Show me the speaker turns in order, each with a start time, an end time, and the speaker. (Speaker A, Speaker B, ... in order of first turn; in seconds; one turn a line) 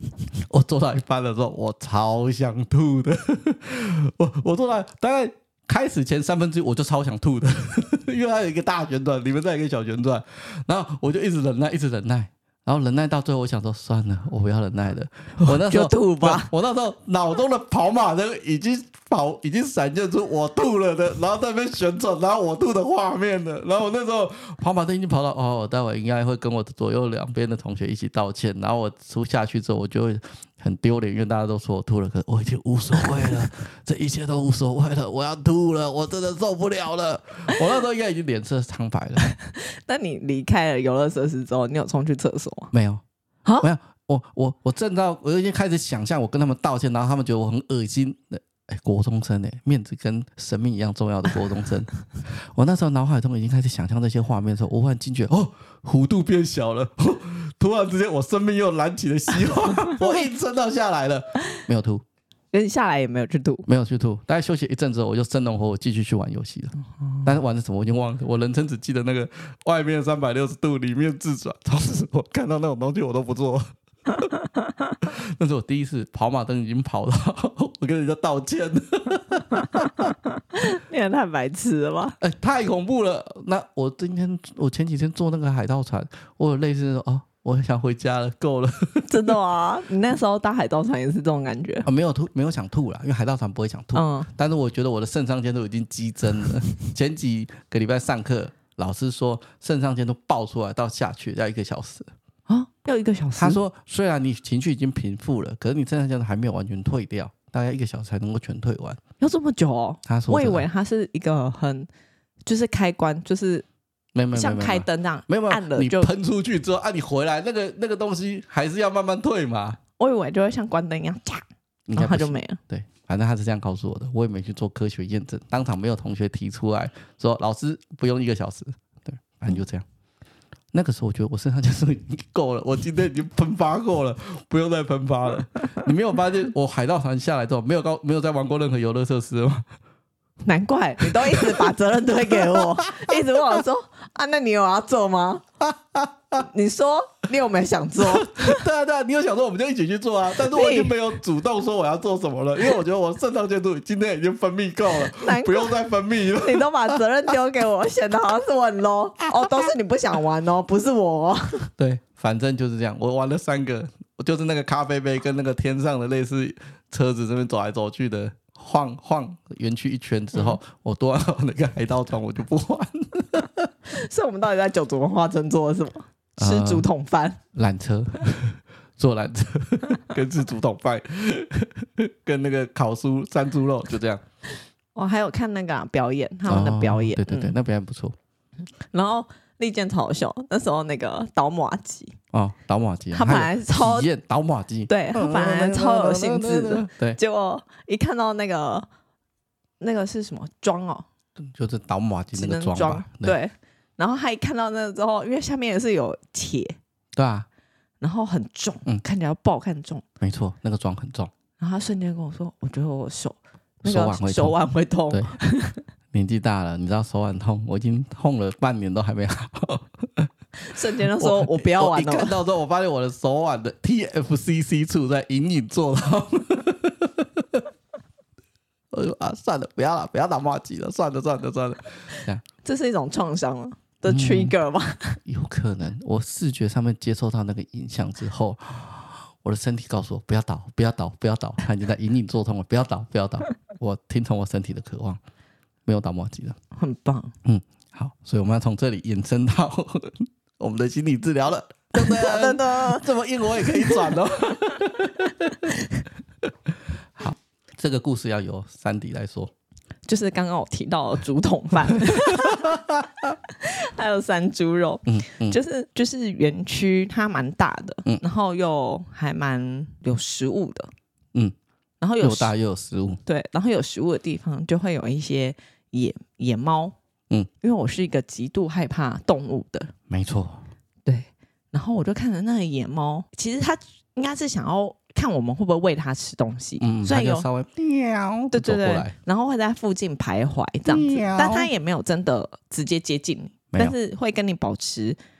Speaker A: 0.3-39.2
Speaker B: 15.4-16.5
Speaker B: 39.2-42.7
Speaker A: 42.7-43.0
Speaker A: 43.6-62.0
Speaker B: 62.5-63.7
Speaker A: 63.6-74.2
Speaker B: 66.9-67.3
Speaker A: 75.0-80.1
Speaker B: 80.5-82.2
Speaker A: 82.2-89.3
Speaker B: 89.1-91.9
Speaker A: 91.8-102.1
Speaker B: 93.9-94.3
Speaker B: 102.5-103.6
Speaker A: 103.3-109.0
Speaker B: 109.2-111.9
Speaker A: 110.0-110.7
Speaker B: 112.5-113.7
Speaker A: 114.1-119.8
Speaker B: 114.3-116.1
Speaker B: 120.0-122.6
Speaker A: 121.9-129.8
Speaker A: 130.7-139.7
Speaker B: 140.4-145.4
Speaker A: 141.0-141.7
Speaker A: 142.3-143.6
Speaker A: 145.6-146.4
Speaker B: 146.4-148.6
Speaker A: 148.0-157.3
Speaker B: 150.4-150.9
Speaker B: 155.1-155.8
Speaker B: 156.3-161.7
Speaker A: 161.8-173.7
Speaker B: 173.9-177.4
Speaker A: 176.4-176.9
Speaker A: 177.5-184.2
Speaker B: 184.9-187.5
Speaker A: 186.5-188.2
Speaker B: 188.9-192.2
Speaker A: 192.3-197.2
Speaker B: 193.1-194.1
Speaker B: 194.9-198.9
Speaker B: 199.8-201.1
Speaker A: 201.4-203.4
Speaker B: 202.3-206.8
Speaker A: 207.1-207.5
Speaker B: 208.0-210.0
Speaker A: 210.2-211.3
Speaker B: 211.6-215.8
Speaker A: 213.8-214.6
Speaker A: 216.1-220.3
Speaker B: 220.6-222.4
Speaker A: 221.0-227.7
Speaker A: 228.9-232.4
Speaker B: 232.1-235.2
Speaker A: 234.1-234.5
Speaker A: 235.2-245.2
Speaker A: 245.8-246.6
Speaker B: 246.7-247.3
Speaker A: 247.4-255.7
Speaker B: 251.9-253.1
Speaker B: 253.6-254.1
Speaker B: 255.2-256.0
Speaker A: 257.2-259.5
Speaker B: 260.1-262.8
Speaker A: 262.2-263.3
Speaker B: 263.5-270.9
Speaker A: 265.1-265.6
Speaker B: 272.0-272.5
Speaker A: 272.2-273.2
Speaker B: 273.2-276.9
Speaker B: 277.6-279.9
Speaker A: 280.1-280.6
Speaker B: 281.1-287.5
Speaker A: 286.8-289.1
Speaker B: 288.5-295.2
Speaker A: 290.9-291.7